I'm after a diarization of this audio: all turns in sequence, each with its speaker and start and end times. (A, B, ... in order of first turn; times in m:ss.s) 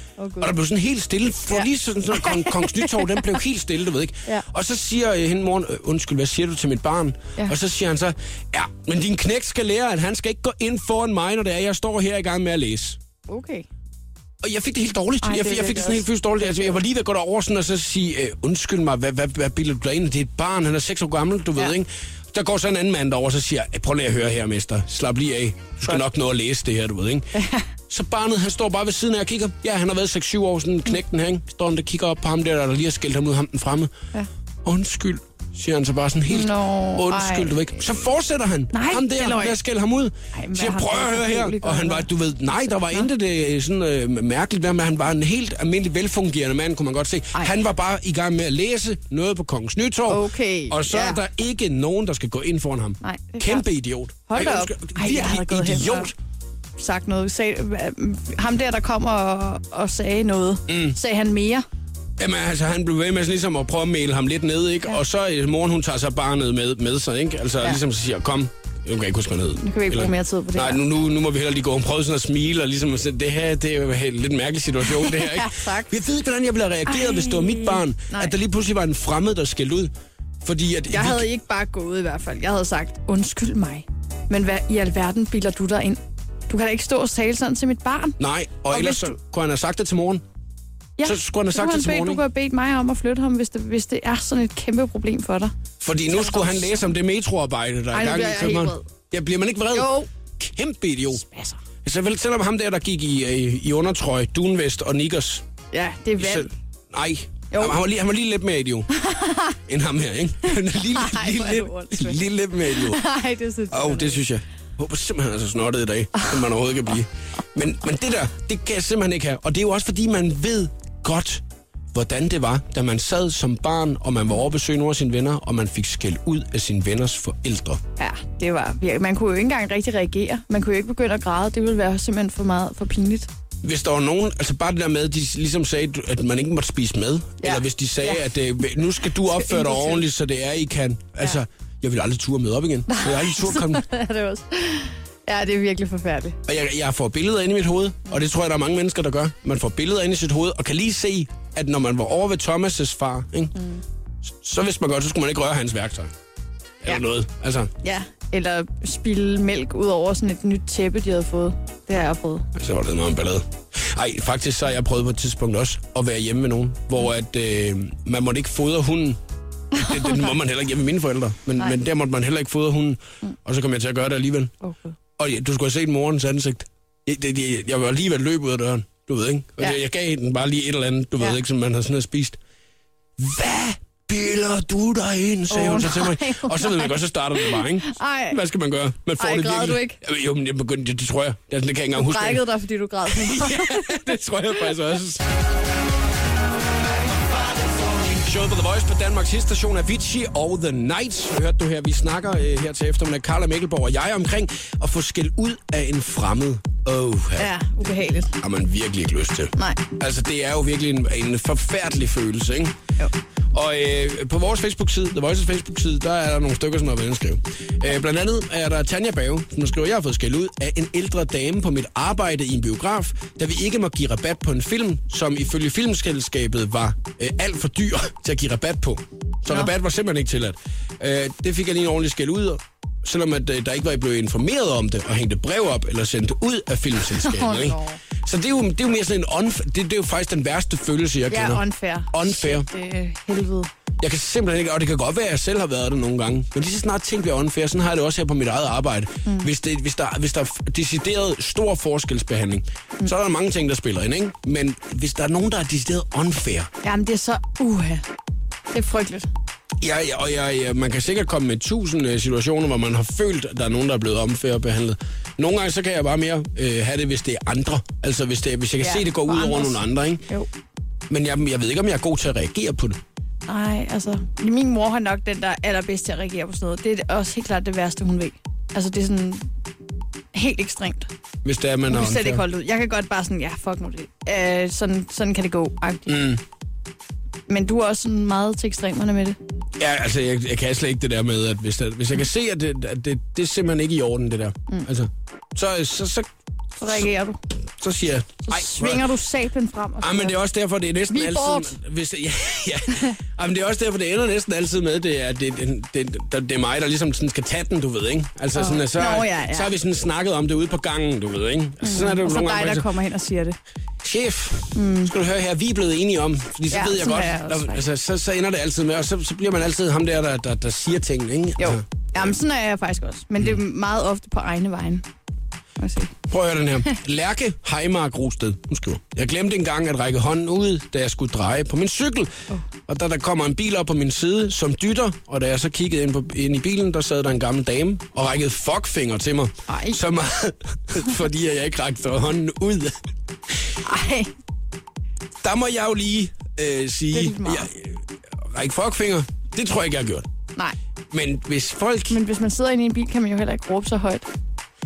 0:00.2-0:00.5 A
0:00.4-0:13.0 B
0:01.5-0:03.2 A
0:13.3-0:13.7 A
0:14.4-0:27.3 B
0:15.2-0:16.1 A
0:27.3-0:27.6 A
0:27.9-0:33.9 B
0:34.6-0:56.1 B
0:36.3-0:37.5 A
0:38.7-0:39.6 A
0:40.3-0:42.1 A
0:50.1-0:51.2 A
0:53.0-0:53.6 A
0:54.3-0:56.1 A
0:56.8-1:01.6 A
1:00.7-1:01.0 B
1:02.2-1:21.3 B
1:09.6-1:10.8 A
1:14.9-1:15.9 A
1:16.9-1:18.3 A
1:20.9-1:28.2 A
1:28.2-1:30.2 B
1:28.7-1:29.1 A
1:31.0-1:35.5 A
1:31.0-1:32.2 B
1:35.8-1:41.2 B
1:36.1-1:36.8 A
1:37.9-1:38.8 A
1:39.7-1:40.1 A
1:41.1-1:41.6 A
1:41.8-1:45.4 B
1:45.7-1:46.5 A
1:46.2-1:48.9 B
1:47.5-1:47.8 A
1:49.0-1:49.5 A
1:49.7-1:53.1 B
1:50.9-1:52.2 A
1:52.8-1:54.2 A
1:53.7-2:01.4 B
2:01.9-2:07.8 B
2:08.0-2:13.3 A
2:13.6-2:23.8 B
2:17.4-2:18.2 A
2:19.3-2:20.0 A
2:22.9-2:26.4 A
2:26.4-2:33.6 B
2:33.6-2:33.8 A
2:34.3-2:36.1 B
2:36.8-2:37.7 B
2:37.8-2:42.5 A
2:42.5-2:49.2 B
2:49.7-2:54.5 B
2:49.8-2:50.2 A
2:54.6-2:55.0 A
2:55.2-3:02.4 B
3:03.2-3:12.4 B
3:05.5-3:08.4 A
3:09.2-3:10.0 A
3:11.9-3:14.0 A
3:13.1-3:15.2 B
3:18.1-3:27.5 B
3:27.4-3:28.3 A
3:28.4-3:32.7 B
3:29.6-3:29.8 A
3:33.5-4:02.7 B
3:57.1-3:58.0 A
4:01.3-4:03.7 A
4:04.0-4:16.7 B
4:16.8-4:18.0 A
4:18.7-4:19.3 A
4:19.8-4:30.2 B
4:28.8-4:30.5 A
4:31.1-4:33.0 B
4:33.5-4:39.5 A
4:40.3-4:41.1 A
4:41.4-4:42.4 B
4:41.9-4:46.3 A
4:46.1-4:46.4 B
4:47.5-4:49.4 A
4:49.8-4:56.3 B
4:56.8-4:57.4 A
4:57.8-4:59.1 B
4:58.5-5:00.4 A
5:00.0-5:12.9 B
5:01.1-5:01.8 A
5:08.5-5:09.7 A
5:11.8-5:13.6 A
5:14.0-5:22.3 B
5:14.7-5:15.1 A
5:16.7-5:17.8 A
5:21.6-5:25.0 A
5:25.8-5:26.1 A
5:26.2-5:32.3 B
5:32.9-5:43.0 B
5:39.7-5:40.0 A
5:43.8-5:44.3 A
5:45.4-5:50.3 B
5:47.1-5:47.7 A
5:51.1-5:52.2 B
5:52.1-5:54.2 A